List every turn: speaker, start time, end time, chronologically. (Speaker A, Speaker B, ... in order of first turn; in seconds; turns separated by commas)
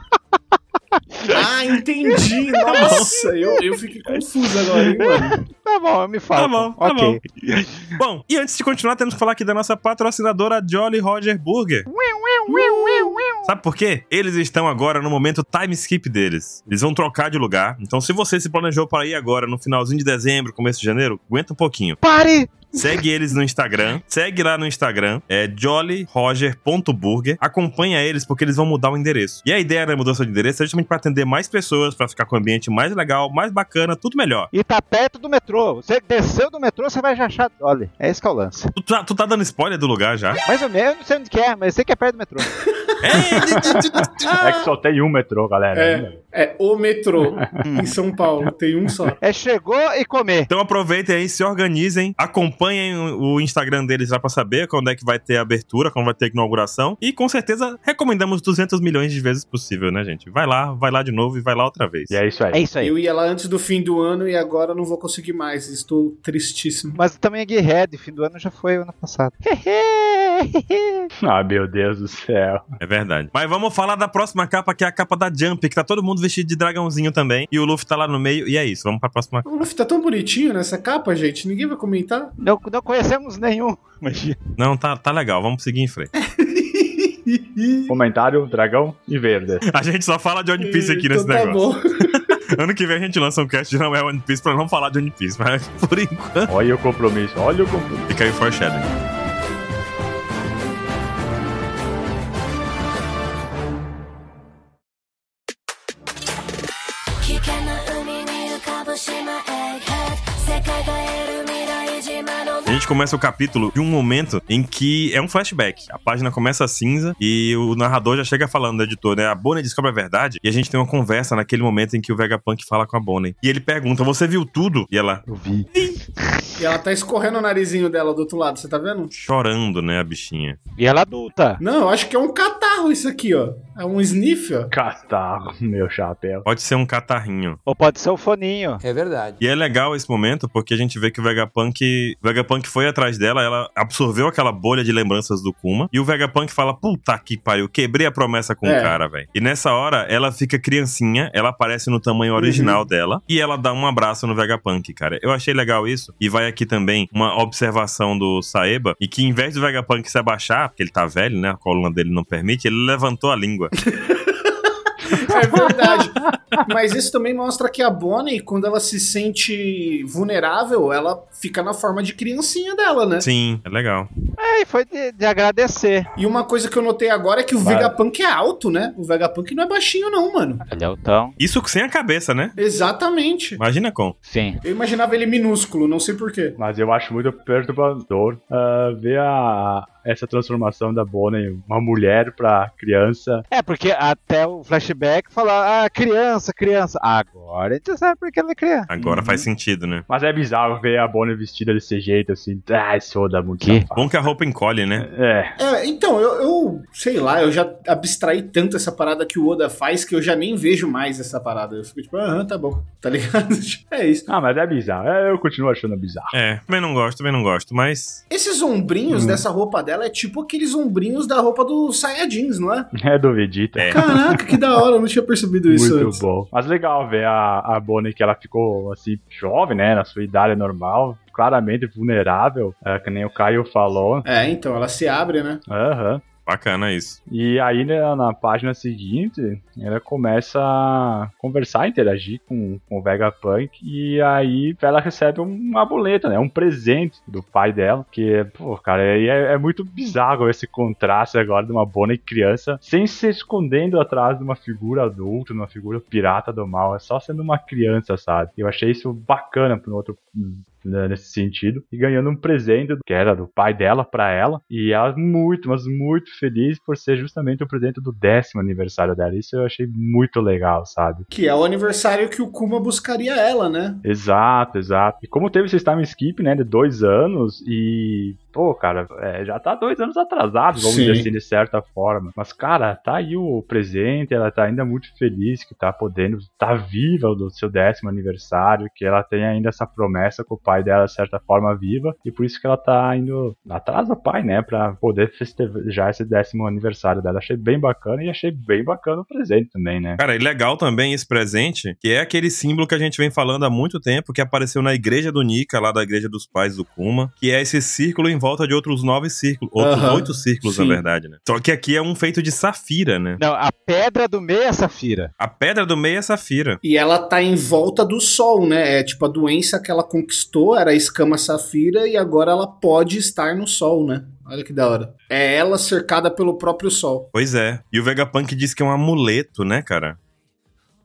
Speaker A: 1.1-1.4, Speaker B: 1.3-5.4, Speaker A: 2.0-3.7, Speaker C: 2.6-3.2, Speaker A: 4.7-7.9, Speaker C: 6.3-7.2, Speaker C: 8.0-11.9, Speaker A: 11.9-13.5, Speaker B: 12.5-13.2, Speaker C: 13.4-22.0, Speaker A: 22.0-22.7, Speaker C: 22.7-34.5, Speaker A: 34.5-38.7, Speaker C: 38.8-40.4, Speaker A: 40.5-42.5, Speaker B: 42.6-44.7, Speaker C: 43.0-44.3, Speaker D: 44.0-46.1, Speaker B: 45.7-49.2, Speaker A: 47.6-47.9, Speaker A: 49.2-50.5, Speaker C: 50.5-62.2, Speaker D: 62.1-62.6, Speaker A: 62.5-62.9, Speaker B: 62.8-67.0, Speaker A: 67.0-71.1, Speaker D: 71.2-72.6, Speaker C: 72.8-79.7, Speaker B: 79.4-82.3, Speaker A: 82.4-84.4, Speaker C: 84.6-86.1, Speaker B: 86.2-88.0, Speaker D: 87.9-89.7, Speaker C: 89.7-91.6, Speaker B: 90.6-92.4, Speaker C: 92.1-96.5, Speaker D: 96.5-98.1, Speaker C: 98.1-98.9, Speaker E: 107.1-112.8, Speaker C: 112.7-125.2, Speaker A: 125.3-126.6, Speaker B: 126.6-129.1, Speaker C: 129.1-130.6, Speaker A: 130.8-131.6, Speaker B: 131.6-134.7, Speaker D: 134.7-136.4, Speaker C: 136.4-137.6, Speaker A: 137.7-138.8, Speaker B: 138.9-139.3, Speaker C: 139.4-163.7, Speaker B: 148.6-149.0, Speaker B: 152.3-152.8, Speaker B: 163.9-173.2, Speaker C: 165.1-165.7, Speaker D: 165.4-166.3, Speaker C: 173.2-174.1, Speaker A: 174.4-176.1, Speaker B: 176.2-180.6, Speaker D: 177.6-178.0, Speaker A: 180.7-181.3, Speaker C: 181.4-182.5, Speaker B: 182.6-183.6, Speaker C: 183.6-184.2, Speaker A: 184.2-184.6, Speaker B: 184.6-186.6, Speaker D: 186.6-193.4, Speaker A: 193.5-199.5, Speaker C: 198.9-200.0, Speaker D: 200.1-204.3, Speaker C: 203.9-205.1, Speaker D: 205.0-205.6, Speaker B: 205.6-214.3, Speaker D: 214.3-216.3, Speaker C: 216.3-218.2, Speaker B: 218.3-222.9, Speaker D: 219.1-219.4, Speaker D: 223.0-224.6, Speaker B: 223.9-226.2, Speaker D: 225.7-234.2, Speaker B: 234.2-235.6, Speaker D: 235.7-236.2, Speaker C: 236.4-237.2, Speaker D: 237.3-271.2, Speaker B: 271.3-274.0, Speaker D: 274.0-300.2, Speaker B: 280.8-281.3, Speaker C: 300.2-313.4, Speaker B: 309.8-311.0, Speaker A: 313.4-315.3, Speaker C: 315.4-316.8, Speaker B: 316.8-327.3, Speaker C: 327.3-330.2